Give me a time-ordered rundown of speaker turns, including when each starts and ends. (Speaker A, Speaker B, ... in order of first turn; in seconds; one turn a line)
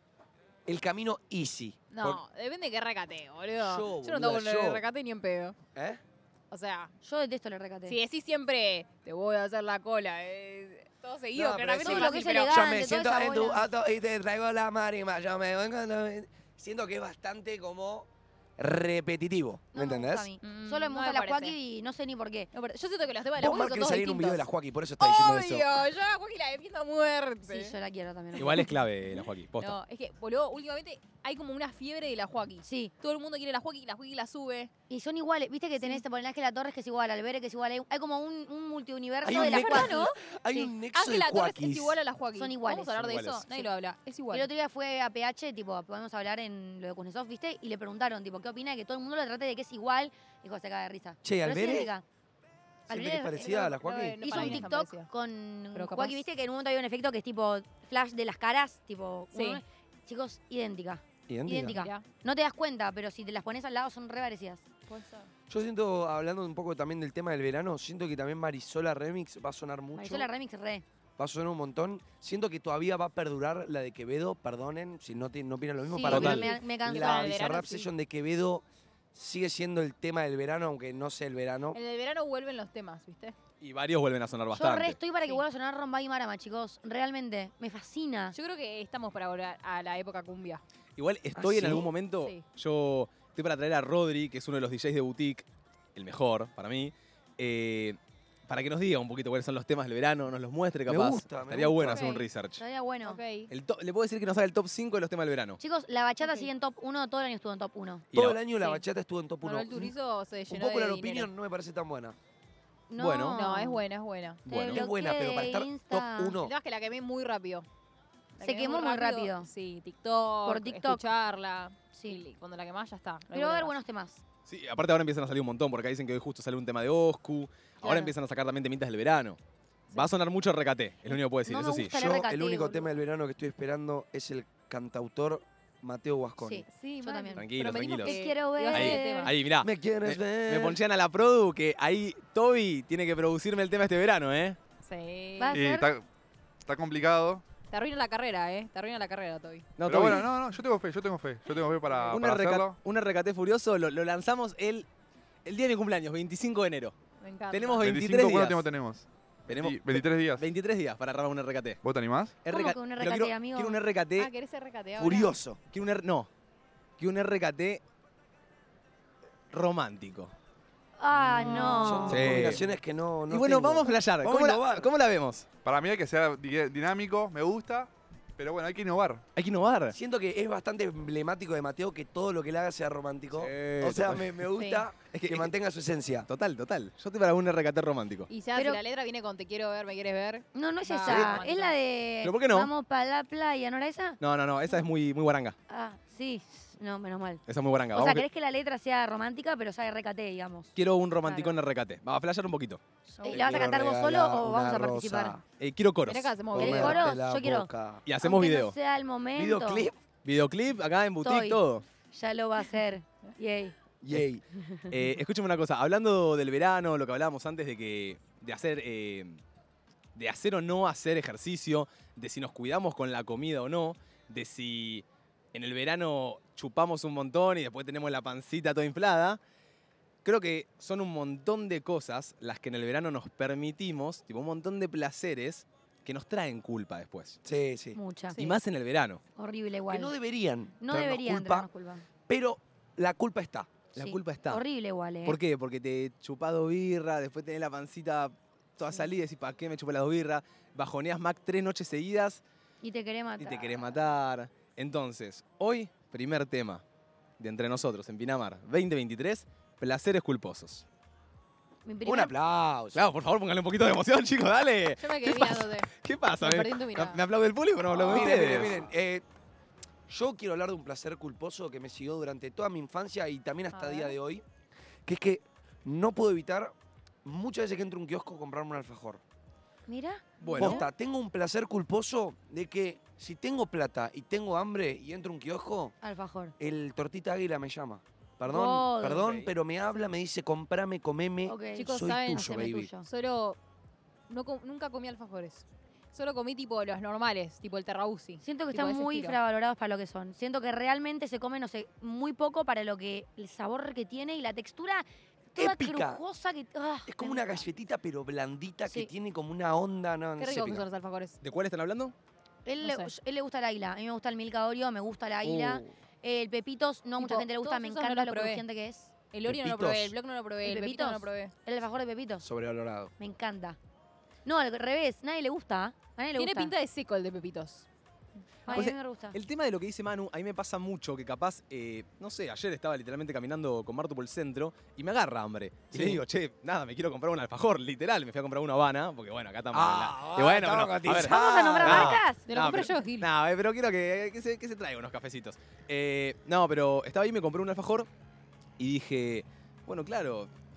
Speaker A: 0.7-2.2
Speaker B: 1.9-5.5
Speaker A: 3.6-4.8
Speaker A: 5.7-6.0
Speaker B: 6.5-6.9
Speaker C: 7.0-8.0
Speaker B: 7.8-12.8
Speaker A: 11.3-20.3
Speaker C: 11.8-13.6
Speaker C: 19.7-22.5
Speaker B: 20.4-21.6
Speaker B: 22.5-27.8
Speaker A: 23.4-25.8
Speaker C: 27.4-28.7
Speaker D: 28.4-29.8
Speaker B: 29.6-34.7
Speaker C: 32.6-32.9
Speaker C: 34.9-40.7
Speaker A: 39.2-42.0
Speaker B: 39.2-40.2
Speaker B: 40.9-44.5
Speaker C: 42.4-43.7
Speaker D: 43.0-43.4
Speaker C: 44.3-52.0
Speaker A: 51.2-51.9
Speaker A: 52.9-54.7
Speaker C: 52.9-64.6
Speaker B: 52.9-55.1
Speaker B: 55.7-56.2
Speaker B: 59.3-59.6
Speaker A: 61.3-61.8
Speaker B: 61.8-62.0
Speaker B: 64.9-65.3
Speaker A: 65.5-70.3
Speaker C: 70.0-70.8
Speaker A: 71.2-81.8
Speaker C: 75.9-77.6
Speaker D: 76.1-76.5
Speaker B: 76.1-77.9
Speaker B: 81.7-83.3
Speaker D: 83.6-85.0
Speaker C: 84.5-88.3
Speaker B: 85.2-85.4
Speaker B: 88.3-90.6
Speaker D: 91.0-102.6
Speaker A: 91.3-91.9
Speaker A: 100.9-102.1
Speaker B: 101.9-102.2
Speaker C: 102.6-103.2
Speaker B: 103.0-103.5
Speaker D: 103.5-105.6
Speaker C: 105.6-108.0
Speaker B: 106.2-106.5
Speaker A: 108.1-109.9
Speaker B: 108.6-108.8
Speaker B: 109.4-111.3
Speaker A: 110.5-112.2
Speaker C: 112.9-113.8
Speaker D: 113.0-113.4
Speaker B: 113.3-114.7
Speaker D: 114.5-114.8
Speaker C: 114.6-116.3
Speaker A: 114.7-116.5
Speaker B: 116.4-117.7
Speaker B: 118.4-123.7
Speaker C: 118.4-119.5
Speaker C: 120.5-121.0
Speaker C: 121.9-122.2
Speaker C: 123.3-124.2
Speaker D: 124.5-129.4
Speaker B: 127.8-128.1
Speaker D: 129.9-131.9
Speaker C: 131.1-132.8
Speaker A: 131.8-136.7
Speaker C: 136.4-139.3
Speaker B: 136.7-139.3
Speaker D: 137.4-138.2
Speaker D: 138.7-144.6
Speaker A: 139.6-140.8
Speaker B: 144.8-145.6
Speaker C: 145.4-145.9
Speaker E: 145.5-146.0
Speaker E: 146.6-147.4
Speaker B: 147.7-149.7
Speaker D: 149.8-150.3
Speaker E: 149.8-152.8
Speaker D: 152.1-154.9
Speaker D: 155.4-156.9
Speaker B: 157.2-157.9
Speaker D: 157.5-158.7
Speaker E: 157.8-160.5
Speaker D: 159.5-161.8
Speaker E: 161.8-162.4
Speaker D: 162.4-164.3
Speaker C: 162.5-163.8
Speaker B: 164.2-165.3
Speaker A: 164.9-165.6
Speaker D: 165.7-166.3
Speaker D: 167.0-167.8
Speaker D: 169.5-170.3
Speaker C: 171.0-172.4
Speaker B: 171.3-172.1
Speaker A: 171.5-174.9
Speaker D: 172.1-172.7
Speaker D: 173.3-175.5
Speaker E: 175.6-179.2
Speaker D: 179.3-179.9
Speaker A: 179.9-186.3
Speaker D: 183.3-184.4
Speaker B: 184.5-184.8
Speaker D: 185.1-185.5
Speaker D: 186.3-188.3
Speaker B: 188.3-191.8
Speaker C: 188.5-188.8
Speaker C: 190.5-194.2
Speaker D: 191.0-191.4
Speaker D: 192.2-192.7
Speaker D: 194.2-195.6
Speaker C: 195.7-197.4
Speaker D: 197.5-198.2
Speaker C: 197.9-200.7
Speaker D: 200.7-202.8
Speaker B: 203.2-203.6
Speaker C: 203.2-205.3
Speaker A: 203.3-205.4
Speaker D: 205.6-206.3
Speaker B: 206.1-207.1
Speaker A: 206.5-208.0
Speaker C: 206.6-209.9
Speaker D: 208.1-208.7
Speaker A: 209.3-210.0
Speaker D: 210.2-211.8
Speaker C: 211.2-213.8
Speaker A: 214.0-214.4
Speaker C: 214.6-214.9
Speaker D: 214.9-219.4
Speaker D: 220.2-229.4
Speaker D: 230.2-237.4
Speaker A: 237.4-238.0
Speaker C: 237.9-238.4
Speaker D: 238.3-239.2
Speaker C: 239.3-240.1
Speaker A: 239.9-241.7
Speaker C: 240.8-242.0
Speaker A: 242.3-243.7
Speaker D: 243.9-244.6
Speaker C: 244.0-245.4
Speaker D: 245.2-252.4
Speaker C: 252.8-253.9
Speaker D: 253.4-256.8
Speaker D: 257.4-260.8
Speaker C: 261.8-262.3
Speaker A: 262.0-263.0
Speaker D: 262.9-268.8
Speaker B: 265.0-267.2
Speaker A: 268.0-269.2
Speaker A: 270.1-274.4
Speaker B: 273.7-274.1
Speaker A: 275.1-276.7
Speaker A: 277.2-279.2
Speaker C: 279.9-280.8
Speaker D: 280.4-280.8
Speaker A: 280.5-285.9
Speaker C: 286.0-286.5
Speaker A: 286.6-292.9
Speaker C: 288.5-289.3
Speaker D: 289.2-289.5
Speaker C: 291.4-293.1
Speaker B: 291.8-293.6
Speaker B: 294.3-299.4
Speaker C: 298.4-307.6
Speaker A: 305.6-306.2
Speaker A: 307.1-310.9
Speaker B: 310.4-311.4
Speaker D: 311.4-312.1
Speaker C: 312.6-319.1
Speaker B: 312.8-313.1
Speaker A: 315.4-315.8
Speaker D: 315.5-315.8
Speaker B: 317.2-318.6
Speaker B: 319.3-321.5
Speaker A: 319.4-320.1
Speaker C: 320.6-322.4
Speaker A: 322.4-323.1
Speaker C: 323.2-323.8
Speaker C: 324.4-326.7
Speaker B: 326.3-327.9
Speaker C: 328.7-329.4
Speaker D: 328.7-348.1
Speaker A: 335.9-336.2
Speaker A: 339.7-342.2
Speaker C: 341.1-342.4
Speaker B: 342.5-343.3
Speaker D: 348.8-350.5